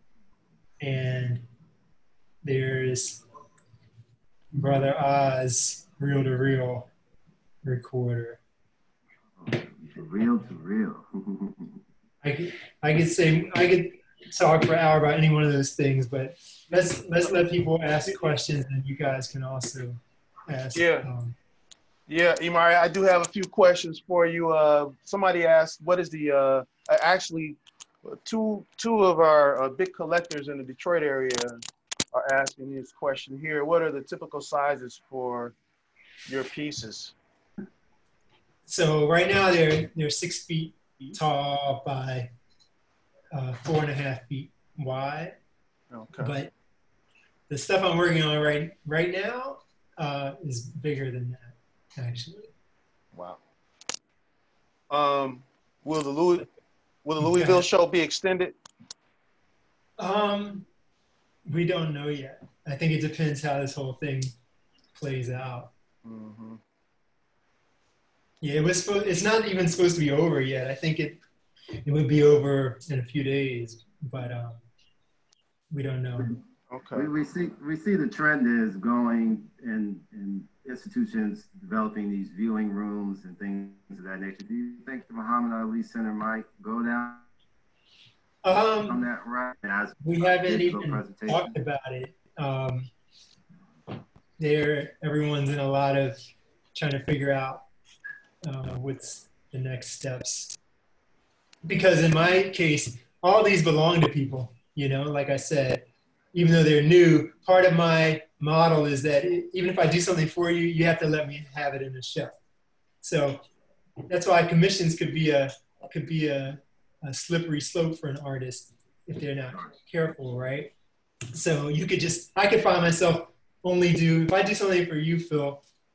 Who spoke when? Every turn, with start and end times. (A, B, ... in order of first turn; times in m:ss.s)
0:00.8-0:01.4 A
0:02.4-0:03.2 A
0:04.6-0:06.9 A
0:07.6-0:08.4 A
0:09.4-0:11.8 B
0:12.2-0:21.4 A
0:20.8-0:21.1 C
0:22.1-0:31.6 C
0:32.1-0:35.6 C
0:36.3-0:37.2 C
0:38.7-0:42.3 A
0:43.3-0:45.4 A
0:45.9-0:46.3 C
0:46.2-0:46.5 A
0:47.5-0:52.5 A
0:53.1-0:53.4 C
0:54.9-0:56.5 C
0:57.0-0:58.6 C
0:57.2-0:57.7 A
1:00.0-1:00.7 A
1:01.5-1:04.3 A
1:04.9-1:05.7 A
1:06.0-1:06.6 C
1:08.4-1:11.2 A
1:11.8-1:14.6 A
1:15.7-1:16.4 A
1:16.7-1:17.1 C
1:16.9-1:27.3 B
1:28.4-1:29.1 A
1:28.8-1:31.6 B
1:30.0-1:32.9 A
1:34.4-1:36.2 A
1:36.8-1:37.7 A
1:38.4-1:40.6 A
1:41.6-1:52.3 A
1:53.0-1:53.4 A
1:54.1-2:00.7 A
2:01.3-2:05.6 A